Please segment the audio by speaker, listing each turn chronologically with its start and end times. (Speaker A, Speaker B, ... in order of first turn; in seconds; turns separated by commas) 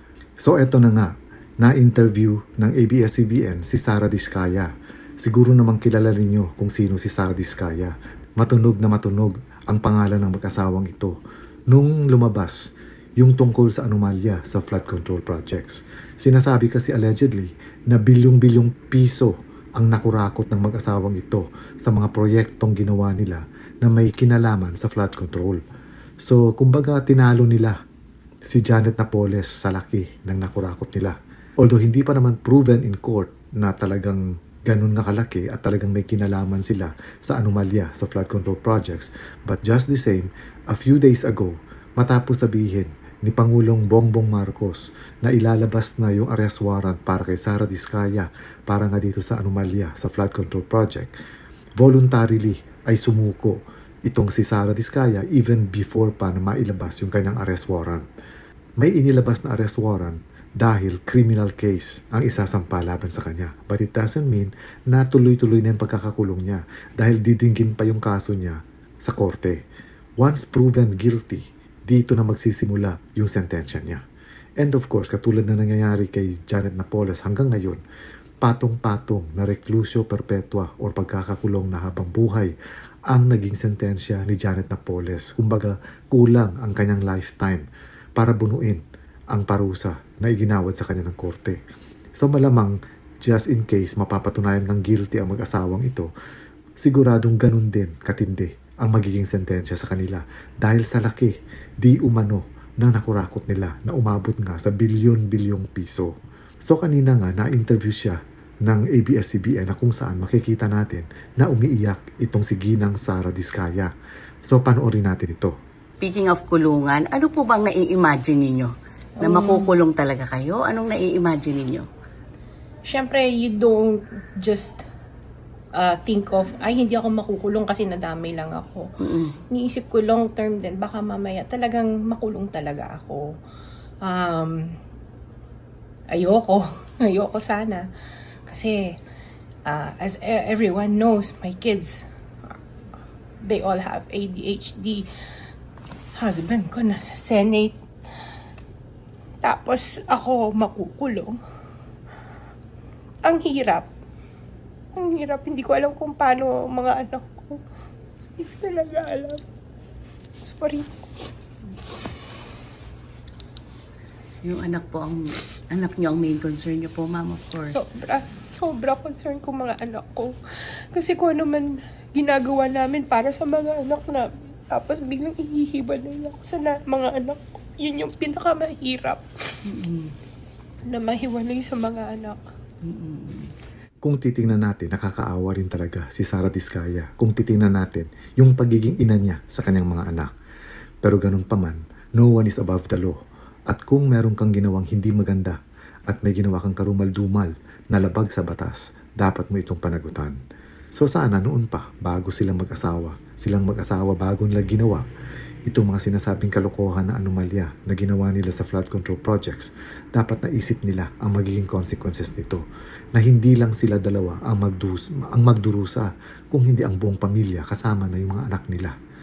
Speaker A: 0.4-4.7, Speaker A: 5.2-25.6, Speaker A: 26.2-27.8, Speaker A: 28.5-51.1, Speaker A: 51.8-58.1, Speaker A: 58.8-69.6, Speaker A: 70.2-74.0, Speaker A: 74.6-77.8, Speaker A: 78.4-82.5, Speaker A: 83.1-91.6, Speaker A: 92.2-96.1, Speaker A: 96.8-106.1, Speaker A: 106.7-113.9, Speaker A: 114.5-115.6, Speaker B: 116.0-121.9, Speaker C: 119.2-119.7, Speaker C: 122.9-124.8, Speaker C: 125.8-128.9, Speaker B: 129.0-129.4, Speaker C: 129.5-133.4, Speaker C: 134.0-134.8, Speaker C: 136.1-137.9, Speaker C: 138.5-139.0, Speaker C: 139.7-142.6, Speaker C: 143.4-145.1, Speaker C: 146.2-147.8, Speaker C: 149.4-151.4, Speaker C: 153.2-153.9, Speaker C: 154.9-157.6, Speaker C: 158.4-159.4, Speaker C: 160.4-161.1, Speaker B: 164.4-167.8, Speaker C: 167.6-179.6, Speaker B: 179.7-180.1, Speaker C: 180.9-182.4, Speaker B: 182.8-183.5, Speaker A: 184.0-190.3, Speaker A: 191.0-200.4, Speaker A: 200.9-205.1, Speaker A: 205.7-212.6, Speaker A: 213.2-219.0